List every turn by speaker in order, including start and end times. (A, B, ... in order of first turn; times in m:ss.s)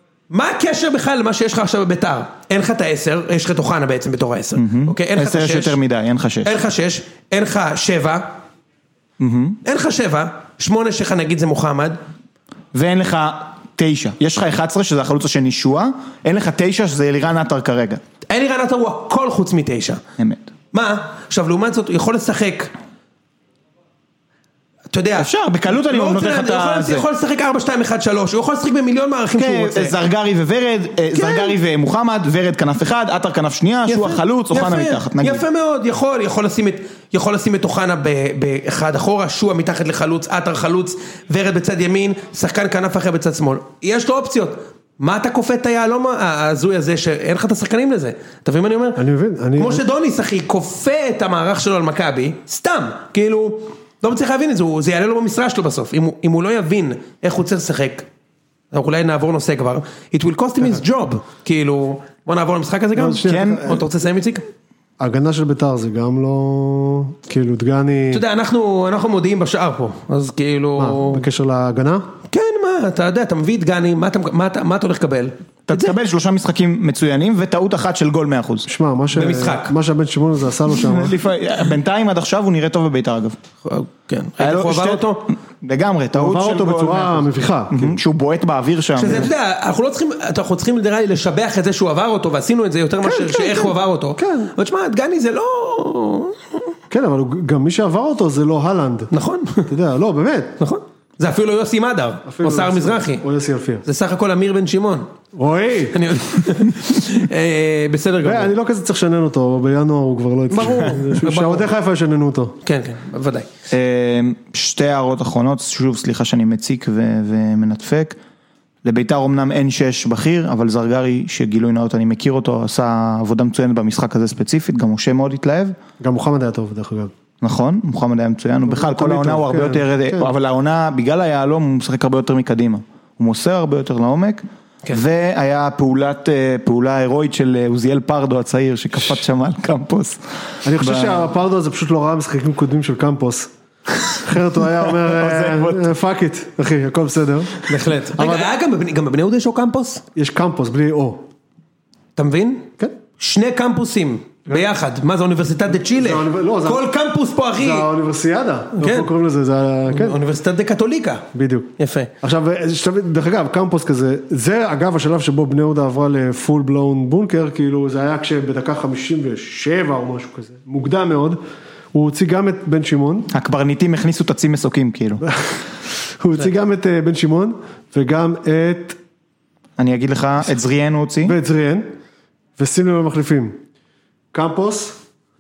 0:00.3-0:05.8 A
0:04.6-0:06.6 B
0:06.4-0:08.3 A
0:09.2-0:09.6 B
0:09.6-0:12.0 A
0:12.7-0:18.0 B
0:18.3-0:20.0 A
0:20.2-0:20.4 B
0:20.7-0:22.7 A
0:24.9-0:25.3 A
0:25.2-0:27.1 B
0:25.9-0:30.0 A
0:29.3-0:35.4 B
0:31.1-0:31.6 A
0:33.9-0:49.0 A
0:49.0-0:49.8 C
0:49.6-0:58.1 A
0:58.7-1:04.4 A
1:03.0-1:03.8 C
1:03.0-1:03.8 B
1:05.0-1:08.2 C
1:08.1-1:11.2 A
1:10.8-1:12.1 C
1:12.3-1:16.0 A
1:15.7-1:18.7 B
1:18.7-1:21.2 C
1:19.1-1:19.7 A
1:20.7-1:23.4 B
1:23.6-1:25.3 A
1:24.4-1:29.3 B
1:26.1-1:28.0 C
1:29.0-1:36.6 A
1:33.0-1:34.5 C
1:36.9-1:39.1 C
1:39.1-1:39.7 A
1:39.7-1:40.6 C
1:40.6-1:43.2 A
1:42.3-1:43.8 C
1:43.8-1:45.1 A
1:45.4-1:46.0 C
1:45.9-1:48.5 A
1:48.2-1:52.6 C
1:50.5-1:51.7 A
1:50.7-1:50.9 B
1:52.6-1:53.5 A
1:53.7-1:58.2 B
1:58.8-2:05.8 B
2:06.0-2:07.1 C
2:07.4-2:20.2 B
2:08.7-2:10.3 C
2:20.6-2:23.5 C
2:20.8-2:21.3 B
2:24.1-2:28.5 C
2:24.9-2:25.9 B
2:27.6-2:30.0 A
2:30.2-2:31.2 C
2:32.2-2:37.9 A
2:35.9-2:36.9 C
2:37.6-2:40.2 C
2:38.8-2:39.1 A
2:39.9-2:41.2 A
2:41.3-2:51.4 C
2:41.8-2:42.1 A
2:51.9-2:53.3 C
2:53.3-2:55.2 B
2:55.2-2:59.0 C
2:59.8-3:01.4 B
3:01.3-3:01.9 C
3:02.6-3:03.6 C
3:04.3-3:05.0 C